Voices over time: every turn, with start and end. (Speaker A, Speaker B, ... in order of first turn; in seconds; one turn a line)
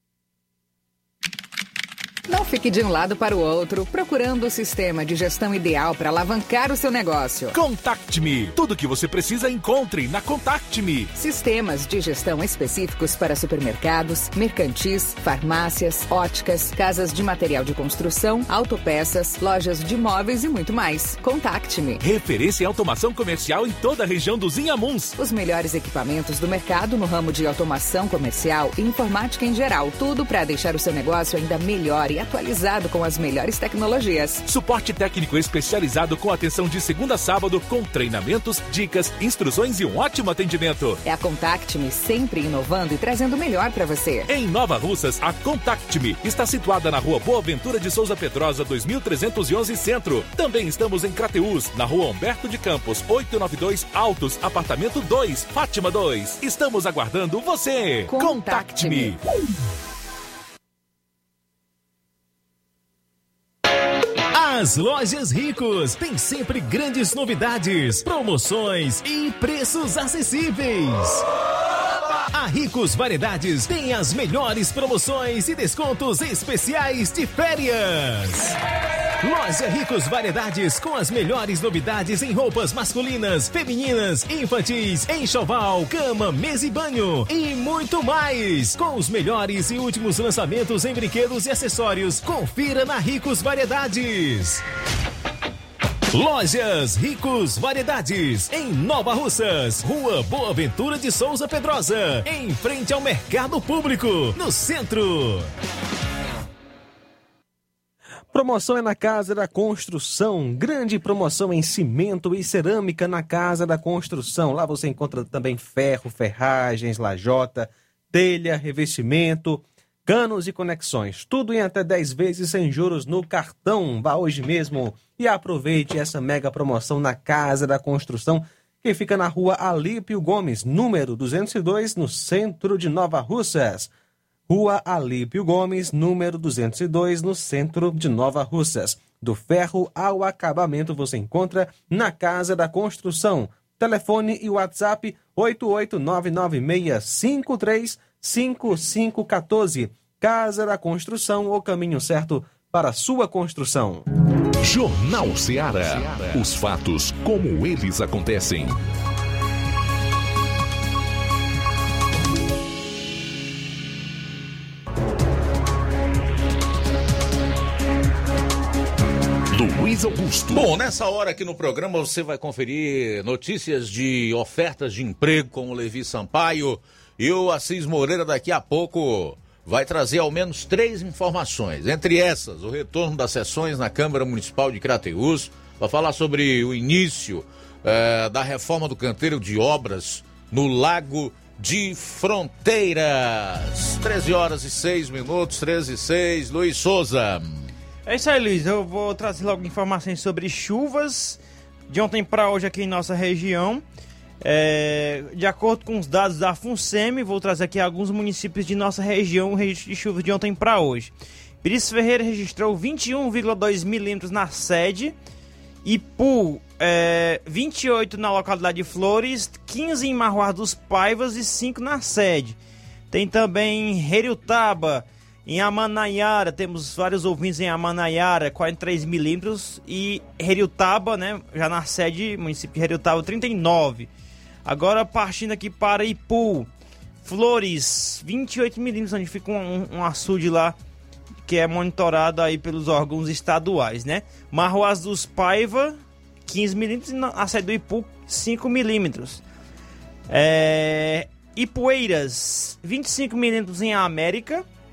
Speaker A: 2.3-7.5
Speaker B: 7.5-11.1
Speaker A: 11.1-22.0
Speaker B: 22.0-25.1
Speaker A: 25.2-34.4
Speaker B: 34.5-41.0
Speaker A: 41.0-44.3
Speaker B: 44.3-59.2
Speaker A: 58.1-59.1
Speaker C: 64.3-71.2
Speaker C: 72.3-78.5
Speaker C: 79.2-94.6
Speaker C: 96.1-105.5
Speaker D: 108.3-133.9
Speaker D: 134.5-154.0
Speaker E: 154.6-158.8
Speaker E: 169.5-170.7
Speaker F: 170.5-197.7
Speaker G: 198.1-203.8
Speaker G: 204.4-215.1
Speaker G: 215.8-222.6
Speaker G: 223.1-234.1
Speaker G: 234.6-236.7
Speaker G: 237.2-240.8
Speaker G: 241.4-249.4
Speaker G: 250.3-254.6